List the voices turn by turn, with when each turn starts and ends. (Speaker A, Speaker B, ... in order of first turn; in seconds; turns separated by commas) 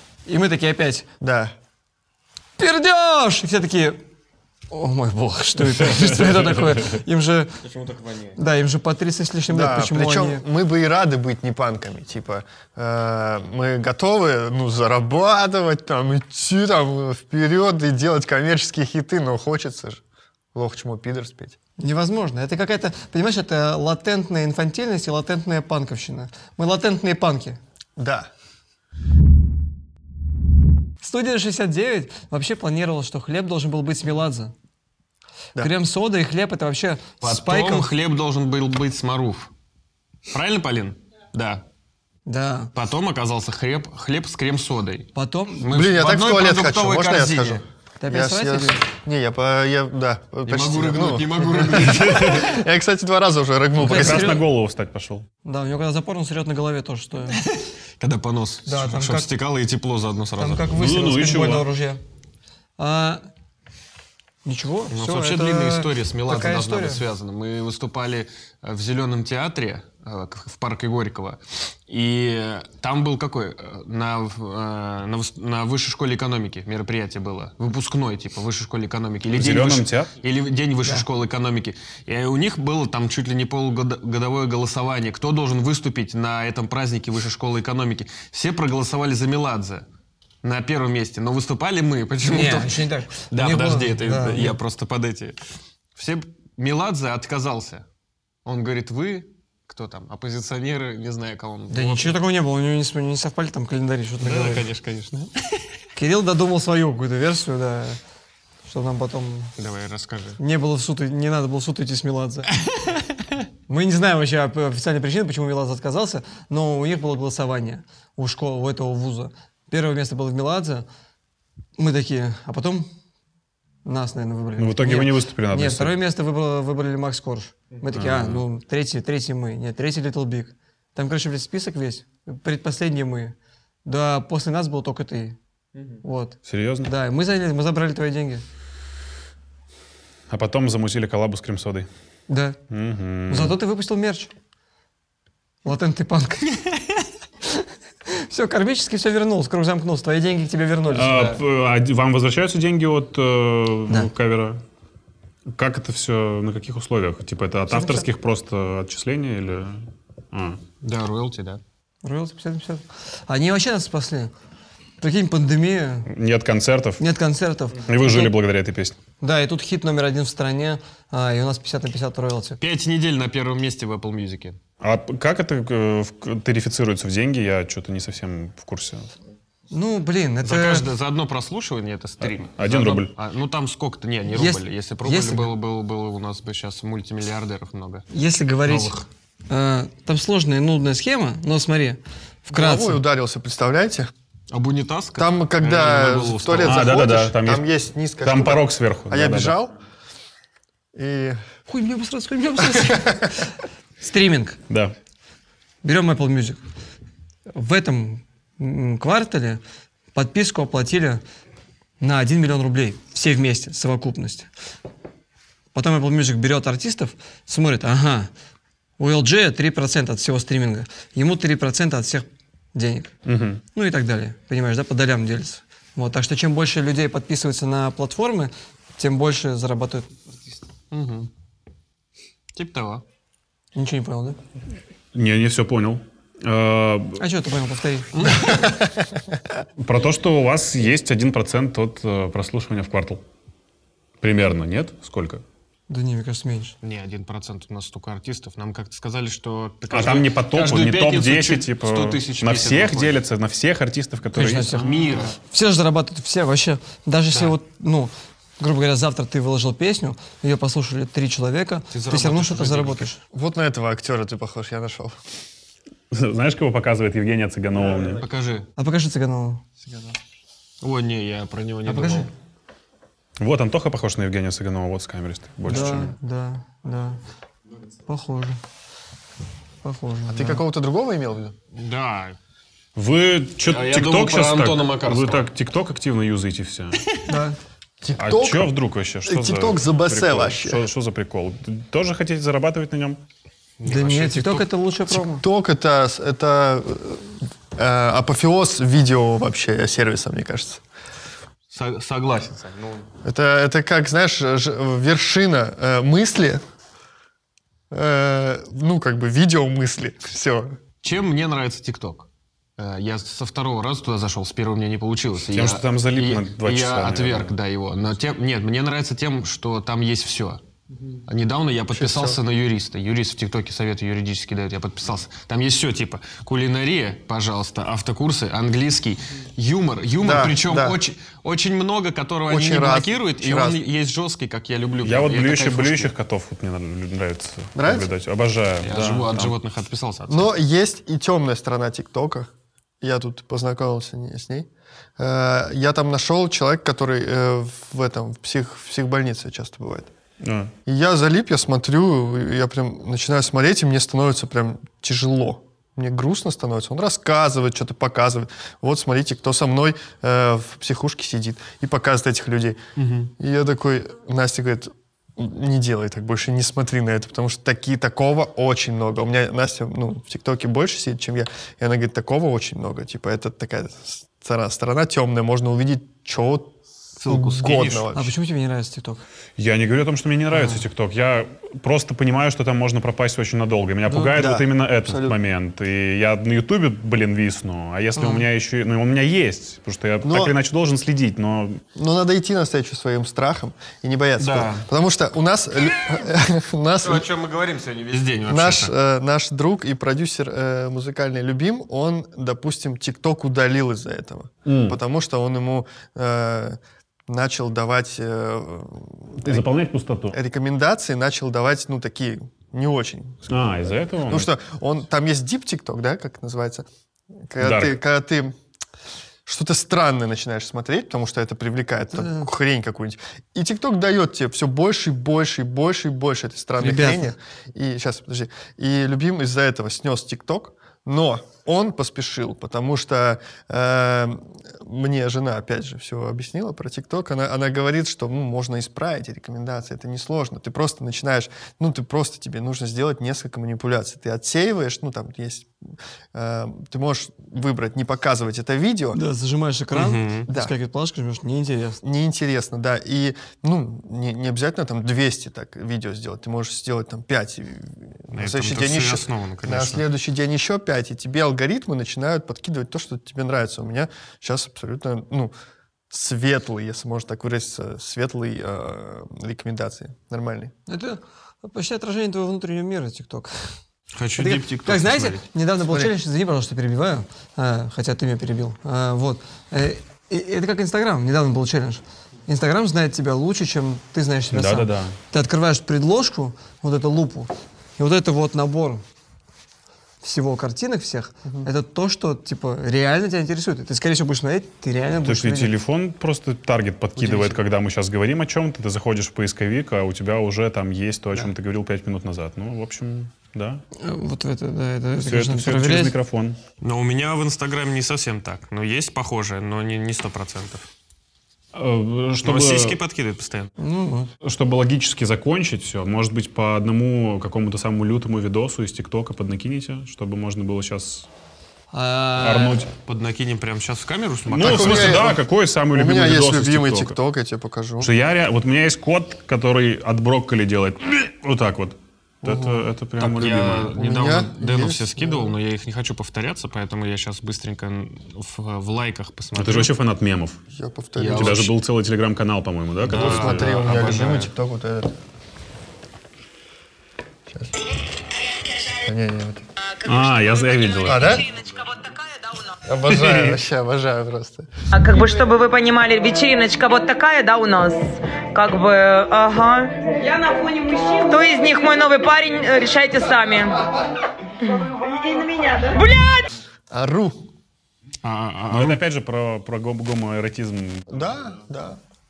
Speaker A: 0.2-1.1, Speaker B: 1.2-1.5, Speaker A: 2.6-4.0, Speaker A: 4.7-7.6, Speaker C: 7.6-8.4, Speaker A: 8.3-10.4, Speaker B: 9.5-20.0, Speaker B: 20.5-21.6, Speaker A: 21.8-27.6, Speaker B: 28.0-28.3, Speaker A: 31.0-34.5, Speaker A: 35.6-37.9, Speaker C: 37.2-39.5, Speaker C: 40.3-41.6, Speaker A: 42.3-42.7, Speaker C: 42.7-47.6, Speaker A: 45.1-45.7, Speaker B: 45.7-54.4, Speaker A: 48.0-48.8, Speaker C: 50.5-52.6, Speaker A: 53.8-54.5, Speaker D: 53.8-55.2, Speaker A: 55.4-57.5, Speaker C: 57.3-60.7, Speaker A: 58.6-59.3, Speaker A: 60.4-62.0, Speaker D: 60.7-61.7, Speaker A: 62.8-63.2, Speaker A: 64.4-67.0, Speaker C: 64.9-89.8, Speaker D: 79.3-80.1, Speaker C: 90.4-95.4, Speaker A: 92.2-94.6, Speaker C: 95.9-97.8, Speaker C: 98.4-102.2, Speaker A: 101.7-104.7, Speaker C: 104.2-105.3, Speaker A: 105.9-108.0, Speaker A: 108.6-109.5, Speaker C: 109.6-110.4, Speaker A: 110.4-112.5, Speaker A: 113.7-120.8, Speaker A: 121.8-122.9, Speaker A: 123.8-135.4, Speaker D: 124.6-125.9, Speaker D: 127.9-128.4, Speaker A: 136.0-138.4, Speaker D: 136.5-136.9, Speaker D: 140.3-141.9, Speaker A: 142.3-142.6, Speaker D: 142.7-143.6, Speaker A: 143.3-144.3, Speaker A: 145.6-146.8, Speaker A: 147.5-151.4, Speaker D: 150.9-154.6, Speaker D: 155.5-160.6, Speaker A: 157.7-158.1, Speaker C: 160.8-161.6, Speaker A: 162.0-164.3, Speaker A: 165.0-166.1, Speaker D: 166.1-167.0, Speaker A: 167.0-168.3, Speaker D: 167.8-169.0, Speaker A: 169.2-172.6, Speaker C: 172.6-174.6, Speaker D: 174.8-179.1, Speaker A: 179.7-180.9, Speaker C: 180.4-188.1, Speaker D: 182.2-183.1, Speaker A: 184.3-185.5, Speaker A: 188.1-189.0, Speaker C: 188.6-189.0, Speaker A: 189.5-193.0, Speaker B: 192.5-194.1, Speaker C: 194.5-197.1, Speaker B: 195.2-199.7, Speaker D: 196.6-197.6, Speaker D: 198.2-199.5, Speaker B: 200.9-201.4, Speaker A: 201.7-203.4, Speaker B: 202.8-203.3, Speaker A: 204.0-204.6, Speaker A: 205.8-206.6, Speaker A: 207.5-209.6, Speaker A: 210.1-211.2, Speaker A: 212.0-214.5, Speaker A: 215.7-218.3, Speaker A: 219.0-223.1, Speaker D: 223.3-223.6, Speaker A: 223.7-230.1, Speaker C: 230.9-231.3, Speaker C: 232.5-233.0, Speaker A: 233.8-234.4, Speaker D: 235.1-237.2, Speaker A: 237.2-238.7, Speaker C: 238.1-238.5, Speaker D: 239.8-243.2, Speaker D: 244.2-245.4, Speaker A: 245.9-246.8, Speaker C: 246.8-253.2, Speaker D: 249.9-254.8, Speaker A: 254.3-263.2, Speaker C: 254.7-255.3, Speaker C: 261.9-263.1, Speaker B: 263.3-265.2, Speaker D: 266.1-268.2, Speaker C: 268.2-268.7, Speaker A: 268.8-269.6, Speaker C: 270.8-272.3, Speaker A: 271.9-272.2, Speaker D: 273.4-276.1, Speaker A: 275.6-277.2, Speaker A: 278.1-278.6, Speaker A: 279.8-280.6, Speaker B: 280.3-281.5, Speaker C: 281.7-282.4, Speaker D: 282.9-287.0, Speaker C: 283.6-285.5, Speaker A: 287.2-287.6, Speaker B: 288.0-288.7, Speaker D: 288.2-293.2, Speaker B: 289.2-290.9, Speaker C: 293.8-294.7, Speaker A: 293.9-295.4, Speaker B: 295.1-300.8, Speaker C: 301.7-303.1, Speaker B: 303.2-306.6, Speaker B: 307.9-310.8, Speaker C: 311.0-320.6, Speaker D: 315.5-317.5, Speaker C: 321.2-336.1, Speaker B: 321.9-322.4, Speaker B: 330.2-331.0, Speaker B: 332.5-333.8, Speaker D: 335.0-339.5, Speaker B: 337.7-338.1, Speaker C: 338.8-340.5, Speaker B: 340.3-350.1, Speaker D: 350.4-350.7, Speaker B: 350.9-362.8, Speaker C: 363.0-363.3, Speaker B: 363.4-378.3, Speaker C: 377.2-378.1, Speaker A: 378.1-379.2, Speaker D: 379.6-391.8, Speaker A: 380.5-380.8, Speaker B: 384.2-385.4, Speaker A: 388.1-388.5, Speaker B: 390.2-390.6, Speaker B: 391.9-397.3, Speaker C: 394.4-394.9, Speaker C: 397.0-398.9, Speaker B: 398.5-409.7, Speaker D: 404.6-405.0, Speaker D: 409.4-410.4, Speaker B: 410.3-416.9, Speaker D: 413.5-414.5, Speaker B: 417.4-418.5, Speaker D: 417.6-417.9, Speaker B: 419.4-445.7, Speaker A: 422.1-422.5, Speaker A: 426.8-427.3, Speaker B: 446.3-449.2, Speaker A: 449.1-452.0, Speaker C: 449.9-450.5, Speaker B: 450.5-450.7, Speaker B: 452.0-465.5, Speaker C: 458.3-460.1, Speaker B: 466.1-470.7, Speaker A: 470.9-473.5, Speaker C: 474.1-475.5, Speaker A: 474.4-489.0, Speaker D: 484.5-485.1, Speaker A: 490.2-495.7, Speaker D: 495.2-503.8, Speaker B: 497.1-497.6, Speaker A: 503.9-506.1, Speaker D: 505.2-506.6, Speaker C: 506.8-510.9, Speaker D: 511.7-513.0, Speaker C: 512.4-513.7, Speaker A: 513.8-514.3, Speaker D: 514.4-521.3, Speaker A: 521.9-522.8, Speaker D: 522.4-522.9, Speaker C: 523.0-525.4, Speaker D: 524.5-527.1, Speaker B: 524.6-528.1, Speaker D: 528.0-534.0, Speaker B: 532.4-532.9, Speaker C: 533.2-539.9, Speaker B: 534.0-535.5, Speaker D: 539.5-540.6, Speaker B: 540.7-541.7, Speaker C: 541.1-541.7, Speaker D: 541.3-543.9, Speaker B: 543.0-545.1, Speaker C: 543.0-544.5, Speaker B: 547.5-547.8, Speaker B: 549.0-549.6, Speaker D: 550.0-551.4, Speaker B: 551.0-551.5, Speaker E: 551.3-552.8, Speaker B: 552.8-554.7, Speaker D: 553.0-553.6, Speaker E: 554.9-563.9, Speaker E: 564.6-566.5, Speaker B: 566.9-567.4, Speaker C: 568.2-569.0, Speaker D: 568.7-571.0, Speaker B: 571.1-572.0